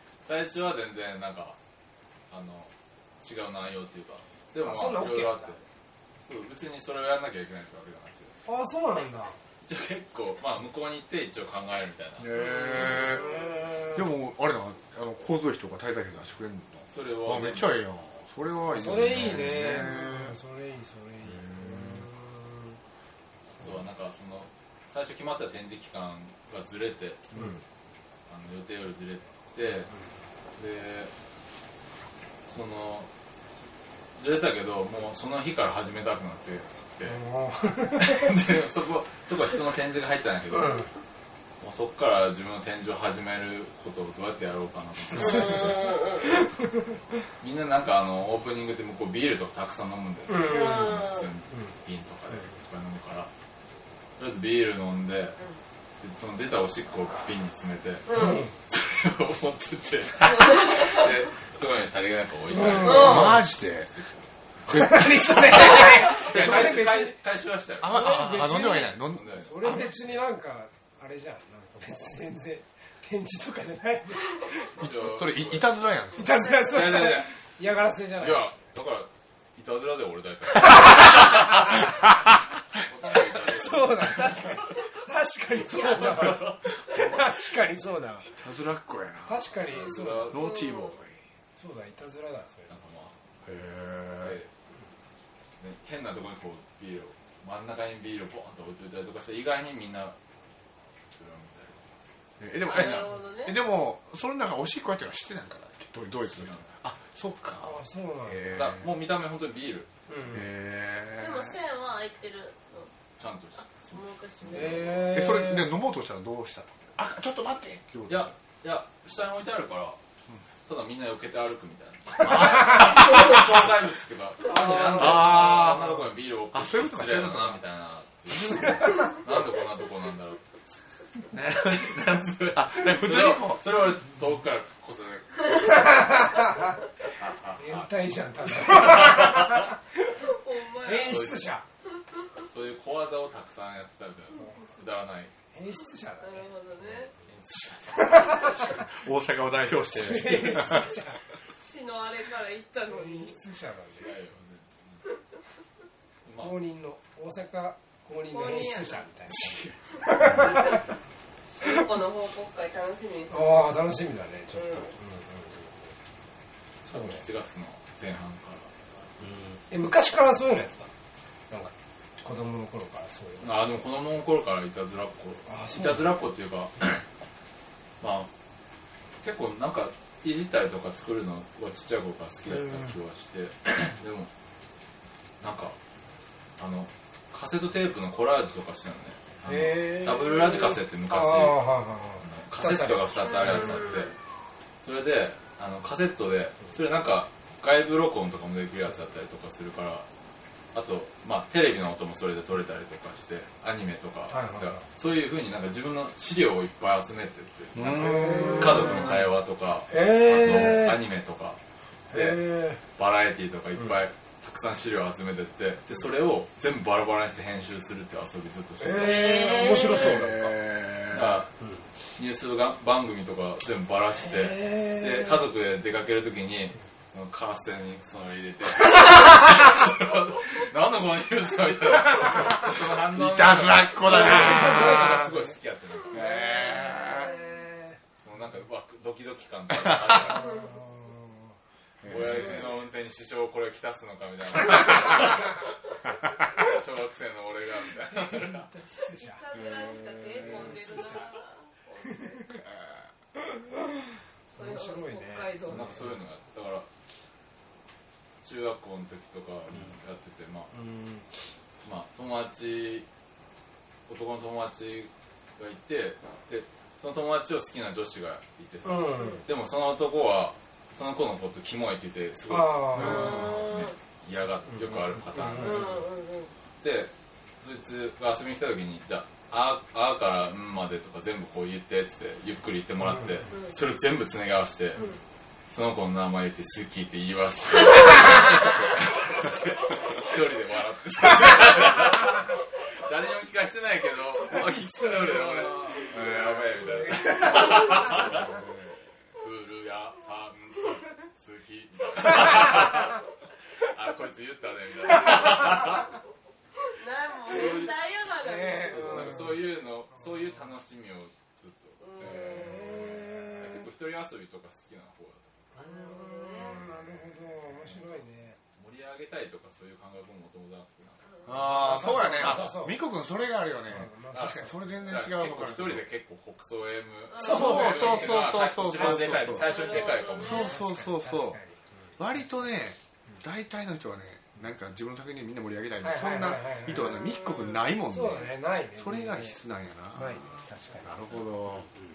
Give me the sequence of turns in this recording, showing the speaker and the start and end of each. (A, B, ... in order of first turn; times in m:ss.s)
0:00.2-0:01.6 A
0:02.3-0:05.6 A
0:04.6-0:05.6 B
0:06.2-0:08.4 A
0:08.4-0:09.4 B
0:09.6-0:13.2 A
0:12.2-0:13.3 C
0:12.3-0:14.0 B
0:13.9-0:20.4 C
0:16.9-0:17.9 A
0:18.7-0:22.8 B
0:21.2-0:22.1 C
0:23.6-0:27.3 A
0:27.3-0:27.6 C
0:27.3-0:27.6 B
0:28.3-0:29.9 A
0:30.6-0:31.1 A
0:32.4-0:33.1 A
0:34.2-0:37.2 A
0:37.0-0:38.3 B
0:37.9-0:40.8 A
0:40.5-0:40.9 B
0:41.6-0:46.1 A
0:45.1-0:46.3 D
0:45.2-0:45.5 B
0:47.4-0:53.3 A
0:50.3-0:51.0 B
0:50.4-0:51.2 D
0:54.2-0:55.4 A
0:56.0-1:04.3 A
0:58.1-0:58.4 D
0:58.1-0:58.5 B
1:00.3-1:00.9 D
1:02.5-1:03.4 B
1:02.7-1:03.9 C
1:02.8-1:03.3 D
1:04.6-1:06.8 C
1:04.7-1:07.2 B
1:05.3-1:10.0 A
1:07.8-1:09.8 C
1:07.9-1:14.8 B
1:14.7-1:15.8 A
1:14.8-1:16.4 C
1:16.1-1:18.6 B
1:16.5-1:17.0 D
1:16.6-1:17.3 A
1:18.2-1:21.9 A
1:22.7-1:24.7 A
1:23.4-1:28.3 B
1:25.6-1:27.0 A
1:26.9-1:27.3 C
1:28.2-1:29.5 C
1:29.3-1:30.5 B
1:29.7-1:30.6 A
1:30.3-1:31.2 C
1:30.3-1:31.0 D
1:31.6-1:32.8 B
1:32.7-1:33.2 A
1:33.4-1:34.4 C
1:34.2-1:34.5 A
1:35.6-1:40.2 A
1:41.1-1:42.0 A
1:42.4-1:48.9 C
1:42.6-1:43.6 D
1:46.2-1:46.8 A
1:47.6-1:48.6 B
1:48.5-1:49.9 A
1:50.1-1:50.4 B
1:50.3-1:51.6 C
1:51.2-1:52.9 D
1:53.2-1:55.0 A
1:53.9-1:55.1 D
1:54.5-1:55.7 B
1:55.1-1:58.3 C
1:58.1-2:00.0 A
2:00.6-2:10.5 A
2:02.2-2:03.4 C
2:04.4-2:06.0 B
2:04.8-2:07.6 C
2:08.4-2:08.7 C
2:11.3-2:12.0 C
2:11.3-2:16.1 A
2:12.5-2:13.7 C
2:15.8-2:16.7 B
2:17.2-2:17.9 A
2:17.6-2:19.8 B
2:18.6-2:19.7 A
2:20.2-2:21.3 D
2:20.8-2:21.6 B
2:21.1-2:21.4 A
2:22.5-2:25.3 A
2:25.5-2:26.5 B
2:26.2-2:27.1 D
2:27.2-2:28.8 A
2:28.0-2:28.6 B
2:28.8-2:30.9 C
2:29.9-2:31.2 B
2:31.6-2:33.4 D
2:32.9-2:34.2 B
2:33.9-2:35.0 A
2:36.2-2:36.6 A
2:36.4-2:40.8 B
2:38.3-2:39.0 D
2:39.3-2:39.8 A
2:39.9-2:40.8 D
2:41.6-2:43.7 D
2:43.3-2:45.9 B
2:44.5-2:44.9 D
2:46.8-2:47.2 B
2:46.9-2:48.9 A
2:49.2-2:50.9 B
2:51.5-2:53.6 B
2:53.4-2:57.0 A
2:55.5-2:56.1 B
2:58.0-2:58.3 A
2:59.2-3:04.3 A
3:02.5-3:02.9 B
3:05.4-3:05.8 A
3:06.6-3:11.6 A
3:09.4-3:13.8 B
3:12.2-3:14.1 A
3:13.3-3:14.1 D
3:14.8-3:20.0 A
3:20.7-3:31.6 A
3:24.3-3:24.8 B
3:27.7-3:29.0 C
3:27.9-3:29.2 B
3:29.9-3:31.0 B
3:32.1-3:32.8 B
3:32.1-3:40.5 A
3:38.8-3:40.5 B
3:39.1-3:40.1 D
3:39.8-3:41.4 C
3:41.1-3:41.5 A
3:42.2-3:57.2 A
3:44.2-3:45.4 B
3:53.1-3:55.3 C
3:54.0-3:55.5 B
3:56.1-3:57.3 C
3:56.2-3:58.0 B
3:58.2-4:00.7 A
3:59.8-4:00.2 C
4:00.2-4:01.6 B
4:00.4-4:00.7 D
4:02.0-4:02.8 C
4:02.0-4:05.7 A
4:06.4-4:08.7 A
4:08.1-4:09.4 B
4:09.2-4:12.4 D
4:09.5-4:10.9 C
4:10.4-4:11.3 B
4:12.5-4:13.1 C
4:14.5-4:16.0 D
4:14.6-4:16.1 B
4:15.7-4:16.9 A
4:18.4-4:20.7 A
4:20.7-4:21.2 B
4:21.8-4:23.1 A
4:24.1-4:36.1 A
4:28.8-4:29.4 B
4:32.5-4:33.4 B
4:32.9-4:33.7 C
4:33.0-4:33.9 D
4:34.7-4:36.0 B
4:35.5-4:36.5 D
4:36.8-4:45.0 A
4:43.0-4:43.5 B
4:43.5-4:43.7 D
4:45.0-4:45.2 D
4:45.7-4:58.6 A
4:54.6-4:56.0 B
4:56.0-4:56.9 C
4:57.9-4:59.0 C
4:59.4-5:03.2 A
5:03.8-5:06.1 A
5:06.9-5:09.4 D
5:07.4-5:08.0 A
5:08.4-5:09.6 B
5:08.9-5:12.6 A
5:12.0-5:12.9 D
5:12.2-5:13.6 C
5:12.4-5:13.8 B
5:13.6-5:15.9 A
5:15.7-5:18.6 B
5:15.8-5:16.9 D
5:16.6-5:17.5 C
5:18.8-5:21.2 A
5:21.2-5:22.1 D
5:21.4-5:26.0 C
5:21.6-5:23.1 B
5:23.8-5:24.8 B
5:24.3-5:30.8 A
5:27.3-5:28.3 D
5:27.4-5:28.4 B
5:27.4-5:31.6 C
5:28.9-5:32.7 B
5:28.9-5:30.7 D
5:32.2-5:41.9 C
5:36.0-5:39.6 B
5:37.4-5:37.8 D
5:40.1-5:41.1 B